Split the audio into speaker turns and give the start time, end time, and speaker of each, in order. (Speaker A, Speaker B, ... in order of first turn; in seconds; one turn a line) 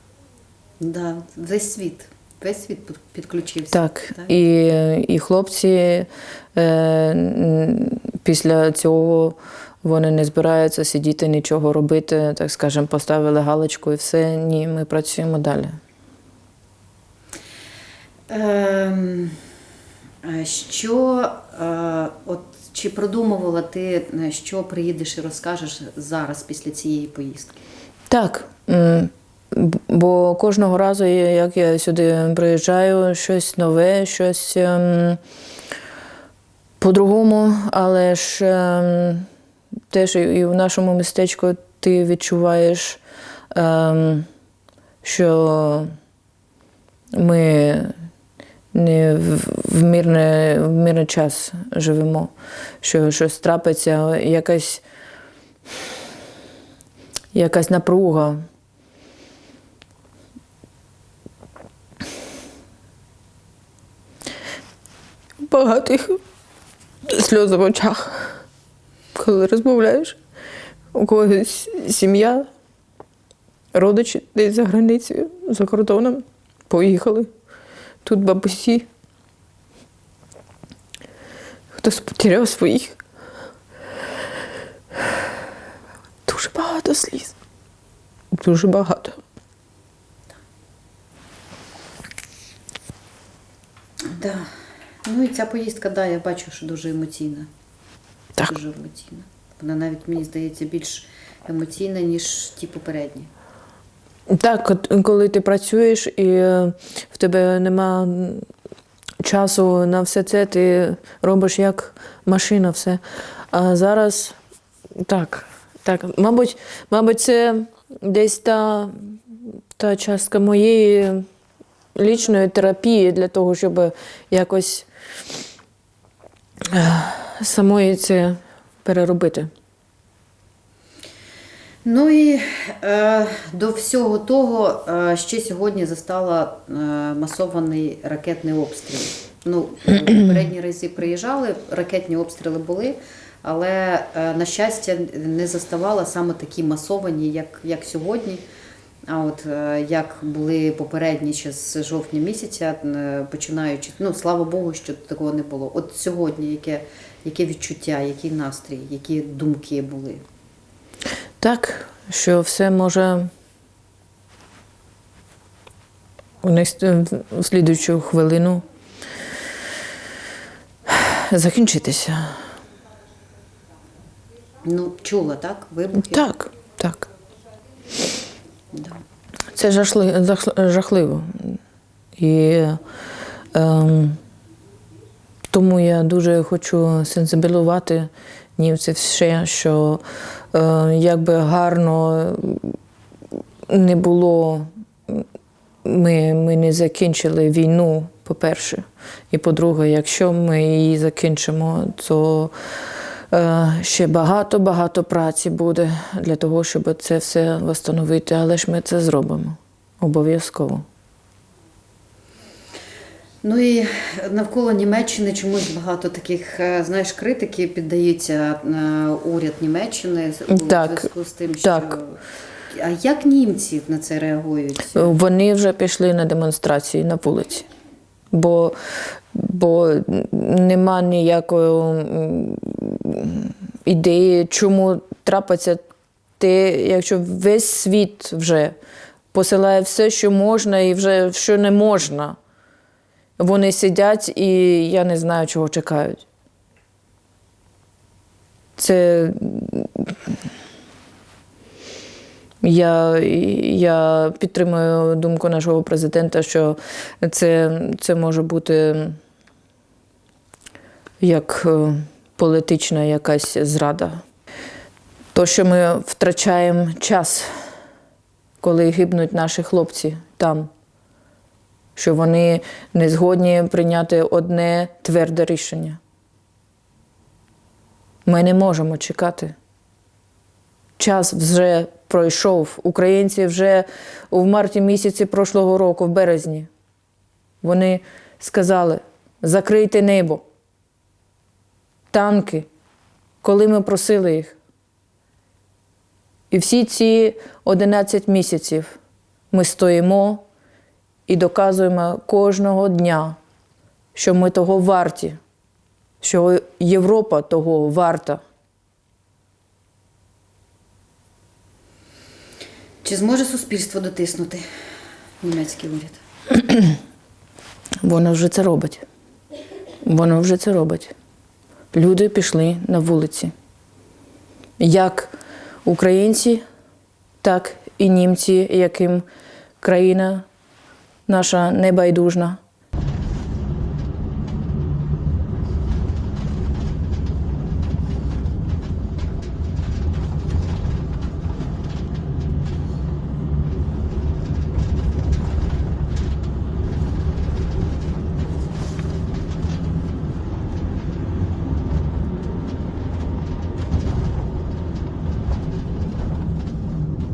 Speaker A: 0.8-4.3
Speaker B: 3.7-15.8
Speaker A: 18.3-19.4
Speaker A: 20.2-27.6
Speaker B: 28.1-35.2
Speaker B: 36.8-39.3
Speaker B: 39.9-43.0
Speaker B: 43.5-44.3
Speaker B: 45.0-45.9
Speaker B: 47.1-47.9
Speaker B: 48.7-54.8
Speaker B: 57.3-58.4
Speaker B: 65.5-66.2
Speaker B: 67.1-68.4
Speaker B: 69.2-70.2
Speaker B: 70.9-72.5
Speaker B: 73.7-77.3
Speaker B: 78.0-78.9
Speaker B: 81.7-83.0
Speaker B: 86.3-87.3
Speaker B: 88.3-89.2
Speaker A: 94.1-94.5
Speaker A: 95.0-97.5
Speaker A: 98.4-103.3
Speaker B: 104.3-108.5
Speaker B: 109.2-114.4
Speaker B: 115.0-121.3
Speaker B: 122.0-124.9
Speaker B: 126.7-129.5
Speaker A: 131.8-148.4
Speaker A: 149.1-160.2
Speaker B: 161.4-163.3
Speaker B: 166.4-168.6
Speaker B: 170.9-172.4
Speaker A: 174.6-176.3
Speaker B: 176.1-177.1
Speaker A: 178.7-179.0
Speaker B: 179.5-181.6
Speaker B: 182.2-182.8
Speaker B: 183.5-184.2
Speaker B: 185.5-192.8
Speaker B: 193.7-195.3
Speaker B: 195.8-210.8
Speaker A: 213.4-225.1
Speaker B: 220.5-221.1
Speaker B: 221.6-222.0
Speaker B: 224.9-227.7
Speaker B: 228.3-235.8
Speaker B: 236.4-238.8
Speaker B: 239.3-242.4
Speaker B: 243.4-246.2
Speaker B: 248.8-250.3
Speaker B: 252.6-259.2
Speaker B: 261.2-264.2
Speaker B: 265.3-267.5
Speaker B: 268.6-270.7
Speaker B: 272.0-276.0
Speaker B: 278.2-279.6
Speaker B: 281.0-286.7
Speaker B: 287.6-290.4
Speaker B: 292.1-292.7
Speaker B: 293.4-294.6
Speaker B: 296.5-299.0
Speaker B: 299.5-300.4
Speaker B: 301.3-303.4
Speaker B: 304.1-305.4
Speaker B: 306.2-308.4
Speaker A: 313.0-314.6
Speaker A: 315.4-316.2
Speaker B: 316.5-317.0
Speaker B: 318.0-319.1
Speaker B: 320.0-321.1
Speaker B: 321.9-323.5
Speaker B: 324.8-325.3
Speaker B: 325.9-326.6
Speaker B: 327.4-329.2
Speaker B: 329.8-330.5
Speaker B: 331.3-332.6